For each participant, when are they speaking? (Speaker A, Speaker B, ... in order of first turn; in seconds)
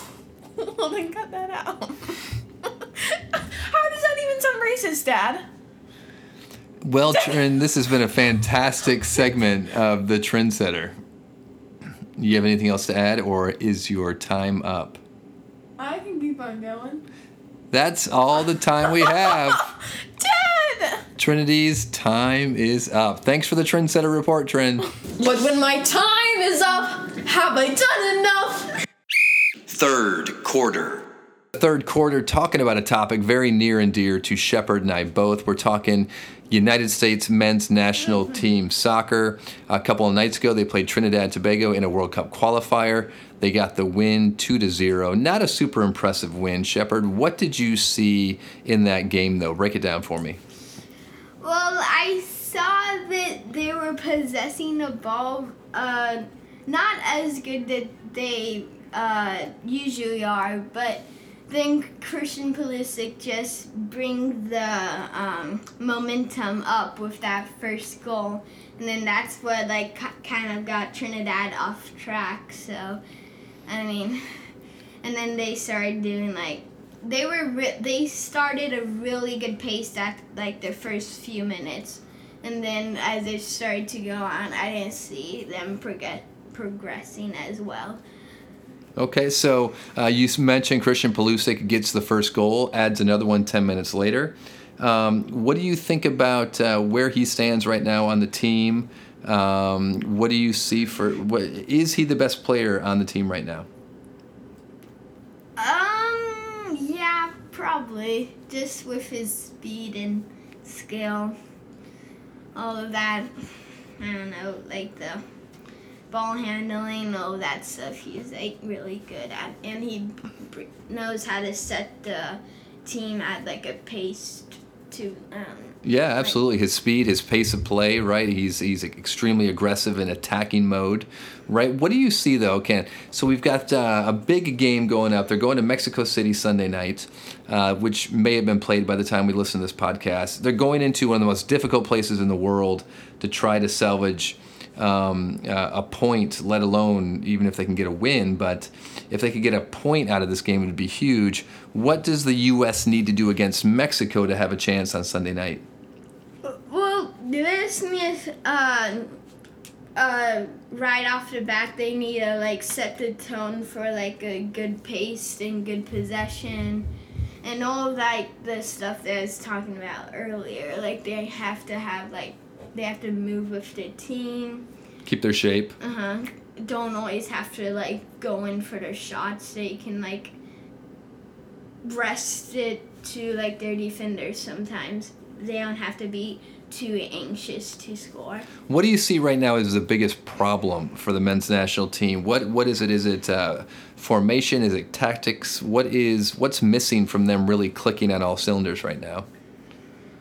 Speaker A: 0.6-5.4, 15.8-17.0, 19.0-21.1, 25.1-28.7
Speaker B: 6.8-11.0, 12.2-15.0, 17.7-19.6, 21.2-24.9, 29.7-50.4, 89.0-103.7, 125.8-155.6, 175.1-175.8, 188.7-199.3
Speaker C: 51.4-73.0, 73.7-74.4, 75.0-88.0, 105.6-111.4, 112.5-113.3, 114.0-115.2, 116.1-126.4, 156.4-159.2, 160.0-166.9, 167.4-174.7, 175.8-180.3, 181.8-188.5